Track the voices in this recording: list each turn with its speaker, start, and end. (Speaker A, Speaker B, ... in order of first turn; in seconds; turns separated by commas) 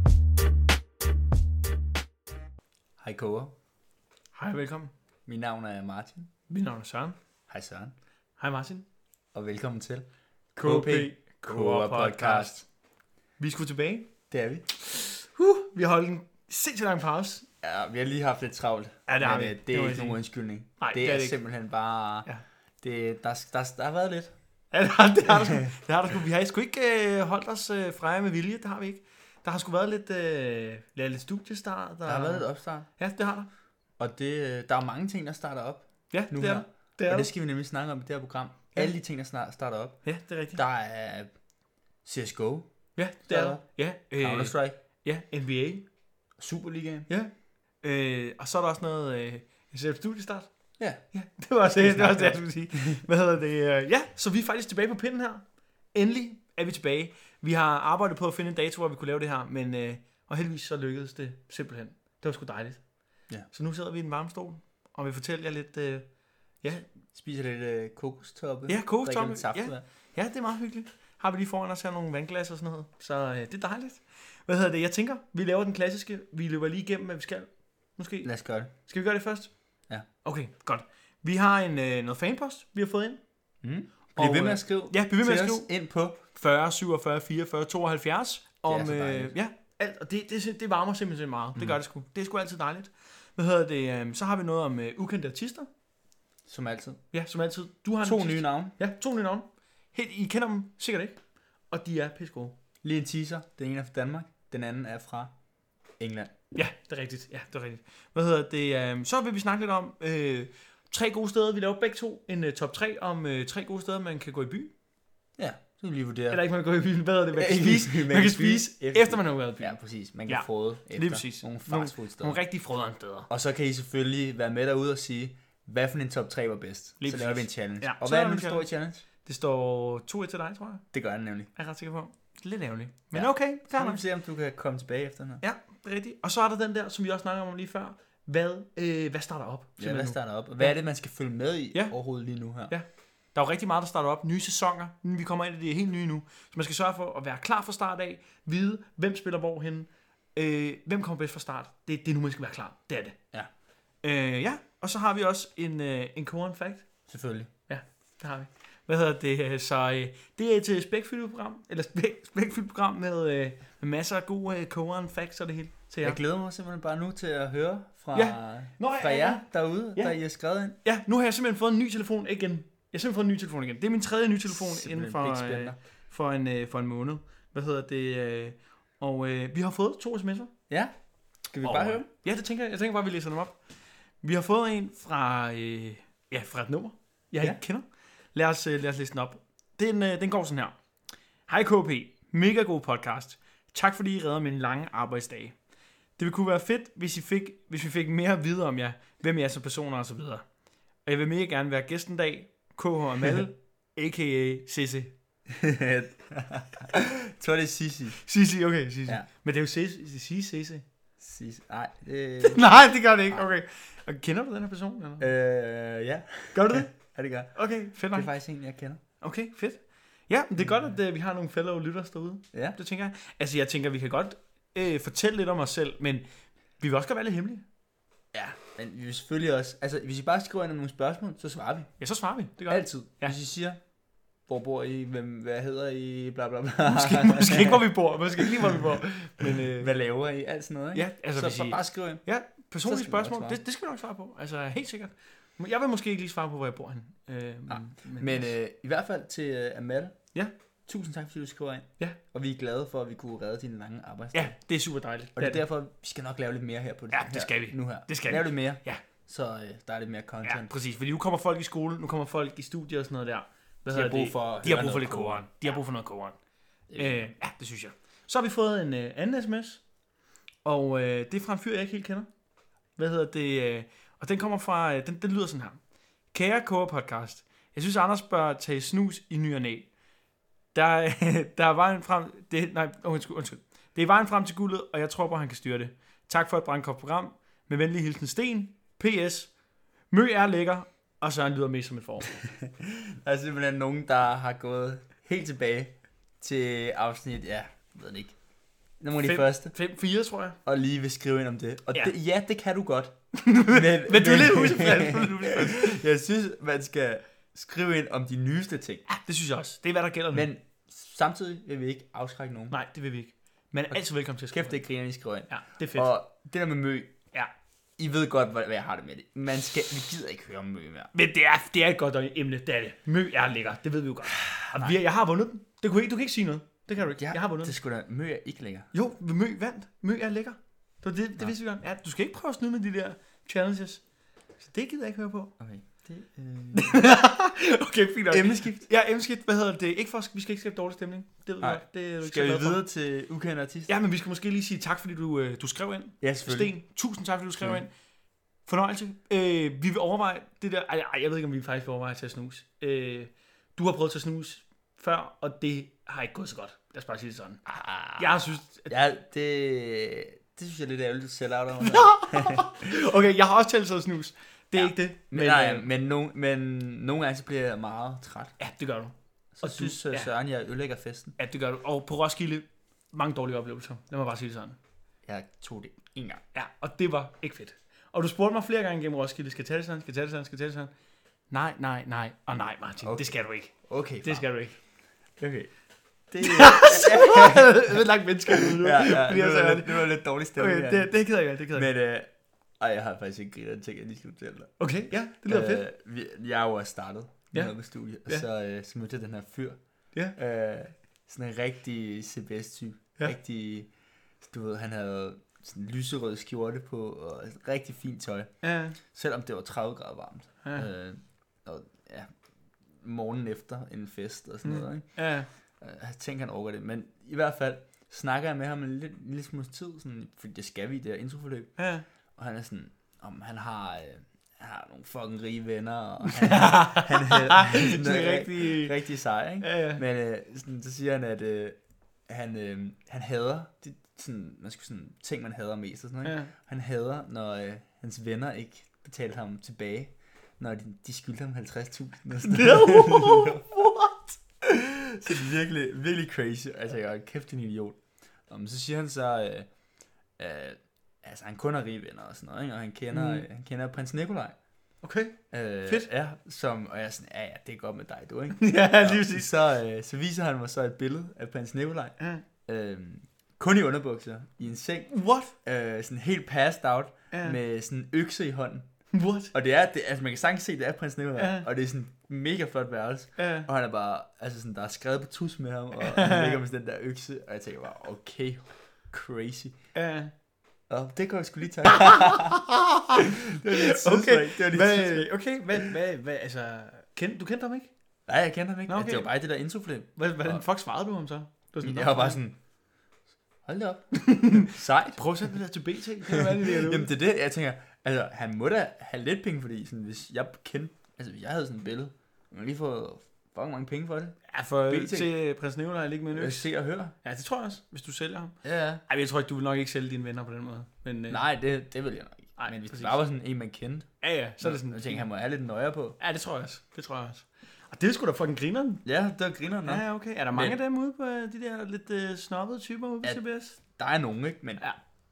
Speaker A: 3.0-3.5, Speaker B: 4.3-4.9, Speaker A: 5.3-6.3, Speaker B: 6.5-7.2, Speaker A: 7.5-7.9, Speaker B: 8.4-8.9, Speaker A: 9.3-12.6, Speaker B: 10.6-12.7, Speaker B: 13.4-14.1, Speaker A: 14.3-14.7, Speaker B: 14.8-17.4, Speaker A: 17.6-22.3, Speaker B: 19.1-20.2, Speaker B: 20.8-21.4, Speaker A: 22.8-24.3, Speaker B: 24.7-33.5, Speaker A: 25.3-25.7, Speaker A: 32.0-32.9, Speaker A: 34.0-41.3, Speaker B: 36.1-37.3, Speaker B: 40.0-40.6, Speaker A: 42.0-42.7, Speaker B: 43.0-45.8, Speaker A: 43.2-43.6, Speaker A: 44.2-44.8, Speaker A: 46.4-47.1, Speaker B: 47.8-66.9, Speaker A: 51.8-53.0, Speaker A: 67.1-69.8, Speaker B: 68.7-83.2, Speaker A: 78.2-78.7, Speaker A: 83.6-86.2, Speaker B: 84.2-85.7, Speaker B: 86.3-95.7, Speaker A: 88.6-89.4, Speaker A: 96.5-97.0, Speaker B: 97.1-102.5, Speaker A: 98.0-98.8, Speaker A: 102.8-105.3, Speaker A: 106.0-106.3, Speaker B: 106.5-114.7, Speaker A: 115.4-116.4, Speaker B: 116.3-123.3, Speaker A: 117.3-122.4, Speaker A: 123.3-129.0, Speaker B: 127.0-130.9, Speaker A: 130.9-131.5, Speaker B: 131.5-134.0, Speaker A: 133.1-135.4, Speaker B: 135.4-140.8, Speaker A: 139.8-142.8, Speaker B: 142.7-153.2, Speaker B: 154.0-156.9, Speaker A: 157.1-157.5, Speaker B: 157.7-166.2, Speaker A: 166.0-170.8, Speaker B: 168.1-170.2, Speaker B: 170.8-180.5, Speaker A: 174.5-175.8, Speaker A: 180.7-182.1, Speaker B: 181.6-183.6, Speaker B: 184.2-190.8, Speaker B: 191.5-195.6, Speaker B: 196.2-200.4, Speaker B: 201.0-205.1, Speaker A: 205.5-208.2, Speaker B: 208.2-210.8, Speaker A: 211.2-212.7, Speaker B: 212.4-215.3, Speaker A: 215.2-219.0, Speaker B: 216.5-216.9, Speaker B: 217.5-218.3, Speaker B: 219.2-226.2, Speaker A: 220.6-220.9, Speaker B: 226.8-227.6, Speaker A: 228.3-231.9, Speaker B: 232.0-233.3, Speaker A: 232.7-233.8, Speaker A: 234.5-242.2, Speaker B: 236.8-239.9, Speaker B: 240.9-248.5, Speaker A: 242.8-243.6, Speaker A: 247.7-250.2, Speaker A: 250.9-254.6, Speaker B: 254.3-255.6, Speaker A: 255.4-260.7, Speaker B: 257.1-259.0, Speaker B: 260.4-266.4, Speaker A: 263.9-265.5, Speaker A: 266.9-267.4, Speaker B: 266.9-269.9, Speaker B: 270.6-272.3, Speaker B: 272.9-279.9, Speaker B: 280.7-289.6, Speaker B: 290.1-292.4, Speaker A: 292.6-298.4, Speaker A: 299.0-299.7, Speaker B: 299.2-300.6, Speaker A: 300.6-309.1, Speaker B: 303.4-306.0, Speaker B: 309.1-310.5, Speaker A: 310.3-312.8, Speaker B: 312.7-314.8, Speaker A: 314.5-317.1, Speaker B: 315.5-316.1, Speaker A: 318.0-321.1, Speaker B: 321.1-327.8, Speaker A: 324.5-325.0, Speaker A: 327.2-328.9, Speaker B: 328.9-334.1, Speaker B: 334.6-335.5, Speaker A: 335.6-337.0, Speaker B: 336.7-342.8, Speaker A: 338.3-338.9, Speaker A: 341.6-343.9, Speaker B: 343.9-347.9, Speaker A: 346.2-346.8, Speaker B: 348.6-357.6, Speaker A: 357.7-362.9, Speaker B: 358.2-358.9, Speaker B: 361.8-365.9, Speaker A: 364.7-368.5, Speaker B: 368.6-370.3, Speaker A: 369.6-371.4, Speaker B: 371.4-374.8, Speaker A: 375.2-376.4, Speaker B: 376.5-380.9, Speaker B: 381.5-384.8, Speaker A: 383.0-384.5, Speaker A: 385.4-385.7, Speaker A: 386.3-412.3, Speaker B: 386.4-391.9, Speaker B: 394.8-395.9, Speaker B: 397.5-398.4, Speaker B: 408.6-409.0, Speaker A: 412.9-415.2, Speaker B: 414.6-415.5, Speaker A: 415.8-421.8, Speaker B: 421.8-422.1, Speaker A: 422.4-443.7, Speaker B: 426.2-429.0, Speaker B: 429.6-430.0, Speaker B: 436.2-436.5, Speaker B: 442.4-444.4, Speaker A: 444.6-449.7, Speaker A: 450.4-454.6, Speaker B: 453.1-453.4, Speaker B: 455.0-456.1, Speaker A: 455.5-468.9, Speaker B: 458.6-459.5, Speaker B: 465.1-465.5, Speaker B: 467.3-467.6, Speaker B: 469.1-469.5, Speaker A: 469.5-479.8, Speaker B: 471.4-471.7, Speaker B: 473.4-473.7, Speaker B: 476.0-476.6, Speaker B: 479.9-480.3, Speaker A: 480.9-482.6, Speaker B: 481.9-487.9, Speaker A: 483.1-485.3, Speaker A: 488.3-490.6, Speaker B: 488.9-489.3, Speaker B: 490.2-492.4, Speaker A: 491.8-492.6, Speaker A: 493.6-495.2, Speaker B: 494.1-497.1, Speaker A: 496.3-505.3, Speaker B: 504.5-506.7, Speaker A: 506.3-507.1, Speaker B: 507.2-511.4, Speaker A: 508.6-509.0, Speaker A: 511.3-516.2, Speaker B: 512.6-513.2, Speaker B: 514.2-515.2, Speaker B: 516.2-519.0, Speaker A: 519.0-520.8, Speaker B: 519.8-523.8, Speaker A: 523.2-524.9